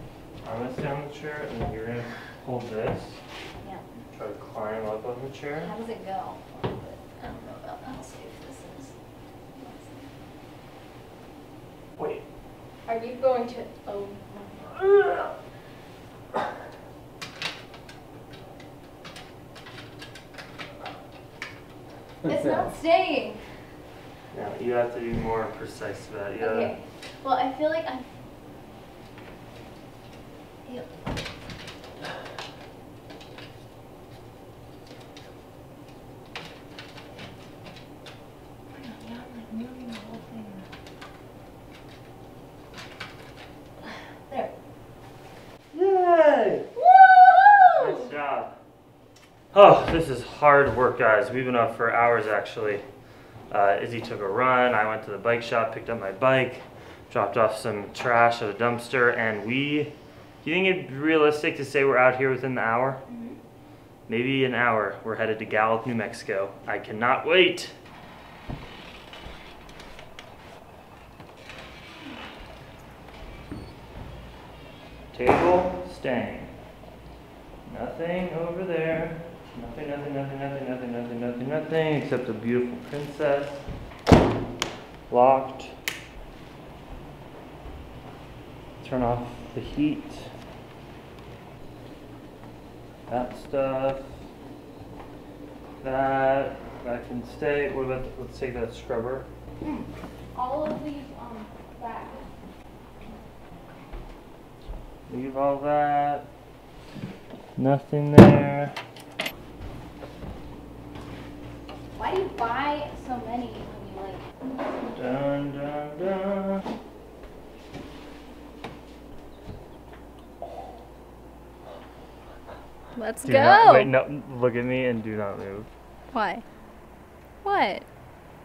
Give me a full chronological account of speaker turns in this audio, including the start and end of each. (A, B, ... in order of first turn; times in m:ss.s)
0:00.4-0:03.2 A
0:04.1-0:05.7 A
0:05.6-0:09.0 B
0:09.5-0:10.1 B
0:12.0-0:12.2 A
0:12.9-0:14.8 B
0:14.8-0:15.3 A
0:22.2-0:23.4 B
0:24.3-0:26.8 A
0:26.4-0:28.1 B
0:38.7-0:40.7 B
0:44.3-0:44.5 B
0:45.7-0:46.7 A
0:46.8-0:48.1 B
0:47.8-0:48.6 A
0:49.5-0:52.8 A
0:53.5-1:03.0 A
1:03.1-1:03.4 B
1:04.1-1:07.8 A
1:15.1-1:16.5 A
1:17.7-1:23.7 A
1:25.1-1:25.8 A
1:28.8-1:30.3 A
1:33.1-1:34.2 A
1:35.8-1:39.3 A
1:39.6-1:42.3 B
1:45.1-1:46.3 A
1:47.6-1:48.8 A
1:52.0-1:54.8 B
1:54.9-1:56.7 A
2:03.0-2:03.9 B
2:03.2-2:05.7 A
2:06.1-2:06.4 B
2:07.4-2:07.9 B